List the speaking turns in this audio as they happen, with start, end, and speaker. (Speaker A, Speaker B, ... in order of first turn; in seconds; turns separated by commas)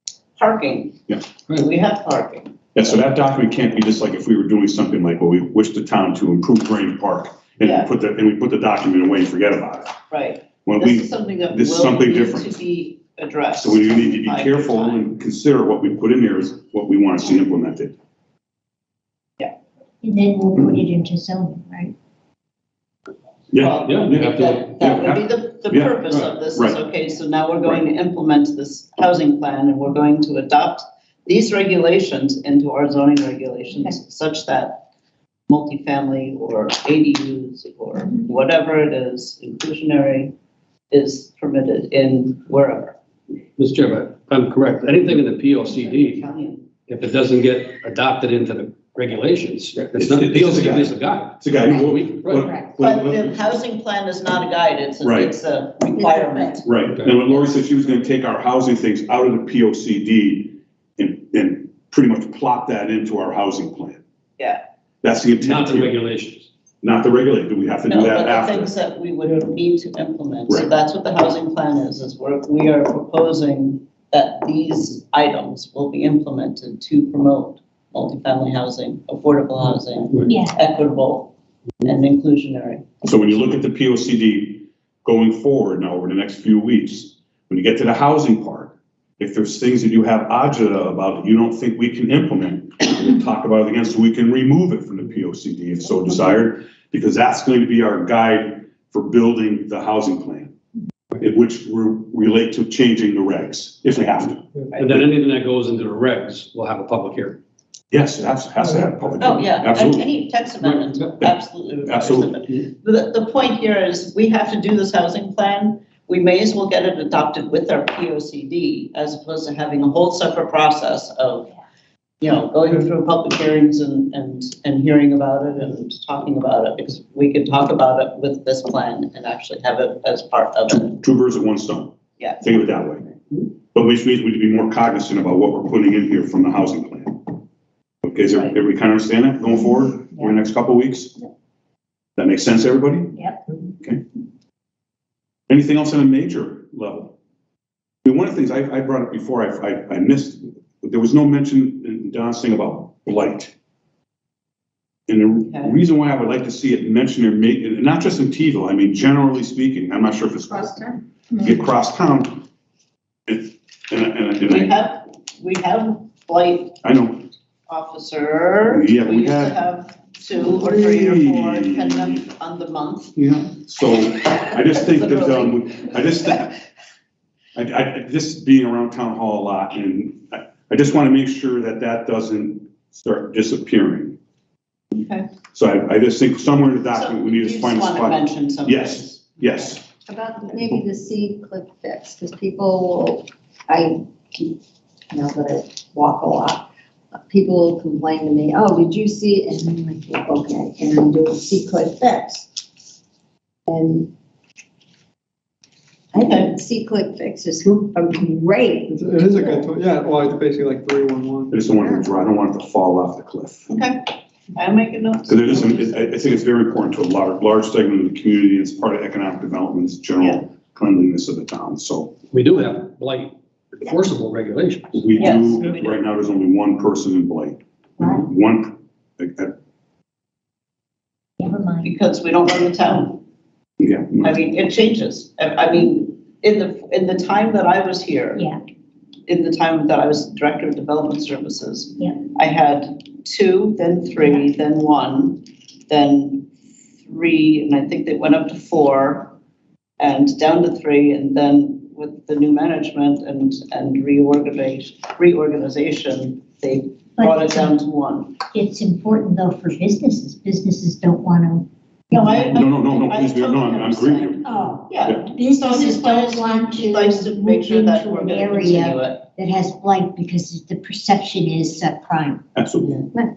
Speaker A: 0.4-2.5, Speaker B: 2.7-9.9, Speaker A: 7.6-7.9, Speaker A: 10.1-15.0, Speaker B: 10.6-12.6, Speaker B: 13.5-17.9, Speaker C: 20.0-21.9, Speaker B: 20.6-20.8, Speaker B: 23.5-25.9, Speaker A: 23.6-34.8, Speaker D: 23.8-24.7, Speaker D: 26.1-26.4, Speaker B: 26.5-26.8, Speaker A: 35.5-40.3, Speaker C: 37.9-38.2, Speaker A: 40.9-42.9, Speaker D: 43.6-46.2, Speaker A: 45.6-46.7, Speaker D: 46.9-52.5, Speaker B: 50.0-53.4, Speaker C: 52.4-52.7, Speaker A: 52.8-57.6, Speaker B: 55.0-55.3, Speaker E: 56.0-56.6, Speaker B: 56.6-64.0, Speaker D: 56.9-57.2, Speaker B: 65.0-65.9, Speaker D: 65.4-66.5, Speaker B: 66.8-68.7, Speaker A: 67.9-81.3, Speaker C: 80.3-80.6, Speaker A: 81.8-82.9, Speaker B: 83.0-100.5, Speaker B: 101.2-105.0, Speaker A: 104.7-105.0, Speaker D: 104.8-107.4, Speaker B: 107.9-110.1, Speaker F: 108.6-108.9, Speaker A: 109.2-121.5, Speaker D: 110.6-111.1, Speaker B: 111.2-112.3, Speaker A: 122.2-131.0, Speaker B: 130.8-133.0, Speaker A: 132.2-132.5, Speaker B: 133.7-137.2, Speaker B: 138.0-141.2, Speaker B: 142.2-143.1, Speaker C: 143.1-143.4, Speaker B: 145.5-147.1, Speaker B: 148.0-153.5, Speaker B: 155.1-162.4, Speaker A: 155.4-155.8, Speaker B: 163.3-164.7, Speaker A: 164.4-166.8, Speaker B: 166.8-167.2, Speaker A: 167.7-173.2, Speaker B: 168.7-169.6, Speaker B: 170.3-172.2, Speaker B: 173.1-176.6, Speaker A: 174.3-175.9, Speaker B: 177.6-184.2, Speaker A: 184.9-185.2, Speaker B: 185.5-189.8, Speaker A: 186.9-189.7, Speaker E: 190.1-194.6, Speaker E: 195.1-196.6, Speaker E: 197.2-202.6, Speaker E: 203.7-204.1, Speaker E: 206.1-209.7, Speaker A: 206.2-206.5, Speaker F: 208.9-211.6, Speaker B: 211.5-213.7, Speaker A: 213.7-216.1, Speaker B: 215.3-222.1, Speaker D: 222.3-225.1, Speaker B: 224.9-229.5, Speaker A: 225.2-225.9, Speaker C: 228.0-228.3, Speaker C: 231.4-231.9, Speaker A: 231.8-233.2, Speaker B: 233.8-234.3, Speaker A: 234.2-238.5, Speaker A: 239.3-246.5, Speaker A: 247.0-249.3, Speaker A: 250.0-258.4, Speaker C: 257.2-257.7, Speaker C: 258.5-262.4, Speaker A: 262.1-269.3, Speaker B: 262.4-264.4, Speaker C: 264.4-272.4, Speaker B: 272.5-273.1